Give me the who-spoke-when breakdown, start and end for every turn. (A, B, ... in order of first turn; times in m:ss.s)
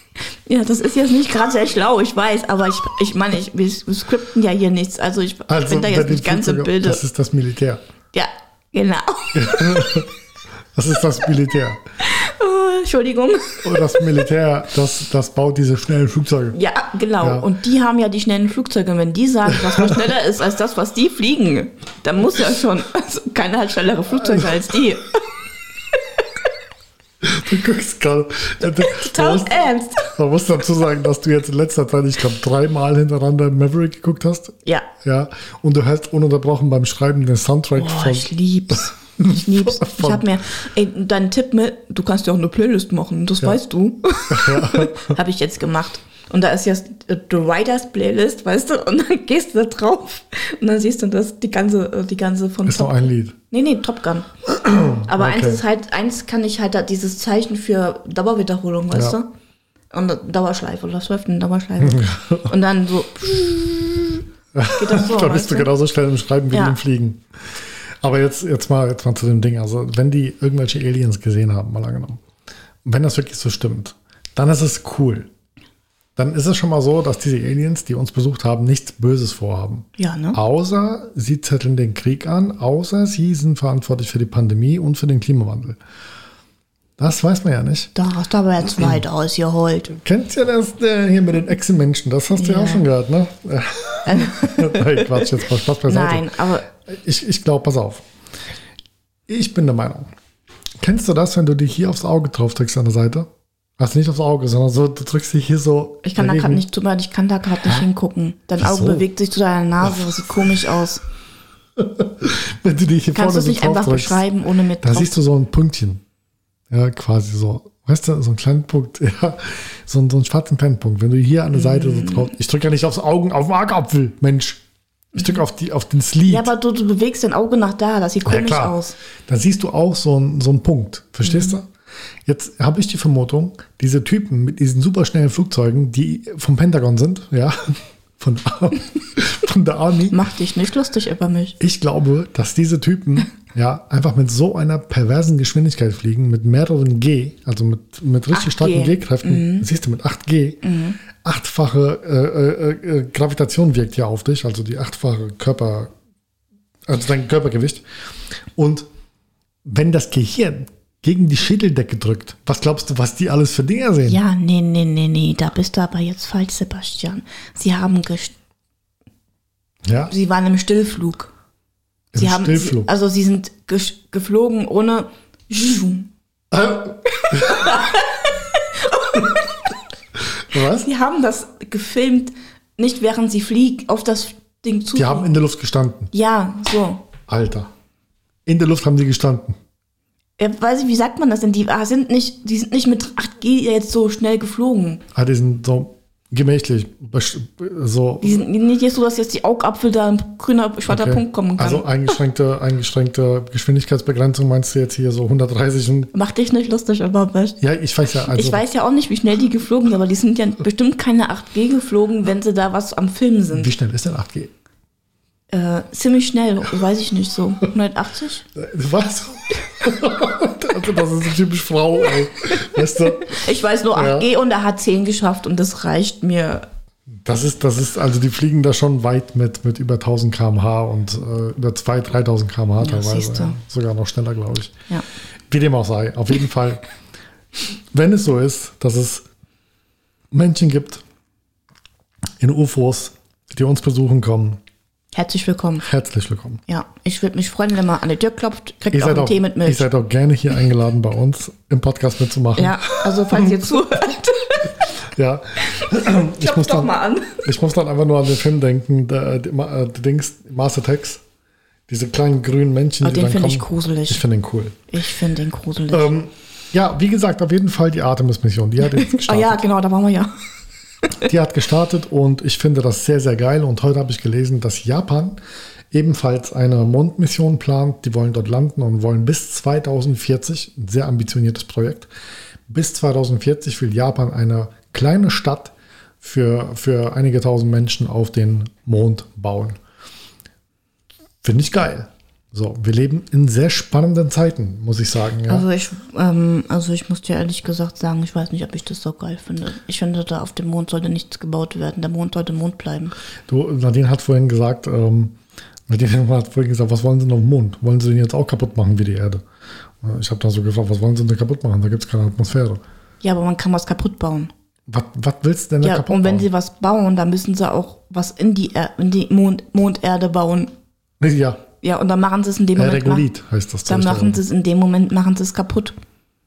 0:00.5-0:07.0 A
0:05.5-0:07.8 B
0:08.1-0:10.1 A
0:09.3-0:10.1 B
0:10.7-0:11.8 B
0:12.0-0:14.3 A
0:13.6-0:16.6 B
0:16.5-0:25.2 A
0:17.2-0:17.5 B
0:19.7-0:20.0 B
0:24.2-0:24.5 B
0:27.2-0:40.3 B
0:28.6-0:30.1 A
0:37.8-0:54.3 A
0:44.3-0:45.2 B
0:52.7-0:53.4 B
0:54.5-0:55.6 B
0:55.1-0:59.3 A
0:59.9-1:04.2 A
1:01.8-1:02.5 B
1:04.6-1:07.2 B
1:04.8-1:05.7 A
1:06.5-1:06.8 A
1:08.0-1:12.2 B
1:12.8-1:15.3 B
1:16.2-1:25.8 B
1:20.0-1:20.4 A
1:27.0-1:27.9 B
1:28.0-1:30.0 A
1:30.0-1:36.3 B
1:32.4-1:32.8 A
1:34.1-1:36.7 A
1:36.8-1:38.0 B
1:39.3-1:40.1 B
1:40.8-1:46.6 B
1:46.0-1:51.0 A
1:48.6-1:49.1 B
1:49.8-1:50.7 B
1:51.8-1:54.2 B
1:53.1-1:55.2 A
1:54.8-1:56.0 B
1:56.7-2:04.6 B
2:01.5-2:02.3 A
2:05.1-2:06.5 B
2:06.3-2:09.0 A
2:08.2-2:11.7 B
2:11.3-2:11.6 A
2:12.3-2:20.2 B
2:20.1-2:21.6 A
2:21.6-2:30.6 B
2:28.3-2:29.7 A
2:30.6-2:31.0 A
2:31.2-2:35.9 B
2:36.9-2:37.8 B
2:38.6-2:38.9 B
2:39.6-2:44.2 B
2:44.0-2:48.4 A
2:49.9-2:50.1 B
2:50.1-2:51.3 A
2:52.1-2:52.9 B
2:52.2-2:56.1 A
2:56.5-2:57.8 B
2:57.3-2:59.7 A
3:00.3-3:00.9 B
3:00.7-3:05.3 A
3:05.0-3:06.1 B
3:06.1-3:07.1 A
3:07.3-3:07.7 B
3:08.5-3:09.6 B
3:10.4-3:15.0 A
3:15.1-3:18.4 B
3:18.2-3:22.2 A
3:20.9-3:26.1 B
3:26.1-3:27.6 A
3:27.6-3:28.6 B
3:28.3-3:33.7 A
3:33.5-3:34.5 B
3:35.5-3:38.5 A
3:38.6-3:44.3 B
3:42.8-3:46.7 A
3:47.1-3:54.8 B
3:52.8-3:53.6 A
3:55.5-3:56.9 B
3:57.9-3:59.2 B
4:00.3-4:01.0 B
4:02.4-4:04.6 B
4:05.1-4:05.9 A
4:05.8-4:06.6 B
4:06.7-4:09.9 A
4:08.9-4:13.6 B
4:12.6-4:14.8 A
4:15.1-4:21.2 B
4:15.8-4:17.4 A
4:21.9-4:24.8 B
4:23.0-4:24.2 A
4:24.9-4:26.1 A
4:25.9-4:29.6 B
4:28.8-4:30.3 A
4:31.2-4:35.4 B
4:35.9-4:42.1 B
4:42.7-4:49.8 B
4:51.4-4:55.6 B
4:55.5-5:03.1 A
5:03.5-5:05.4 B
5:05.9-5:09.4 B
5:10.0-5:12.8 B
5:13.2-5:14.5 A
5:14.9-5:16.5 B
5:15.8-5:20.7 A
5:21.2-5:21.6 B
5:21.8-5:23.3 A
5:22.8-5:24.4 B
5:23.9-5:26.0 A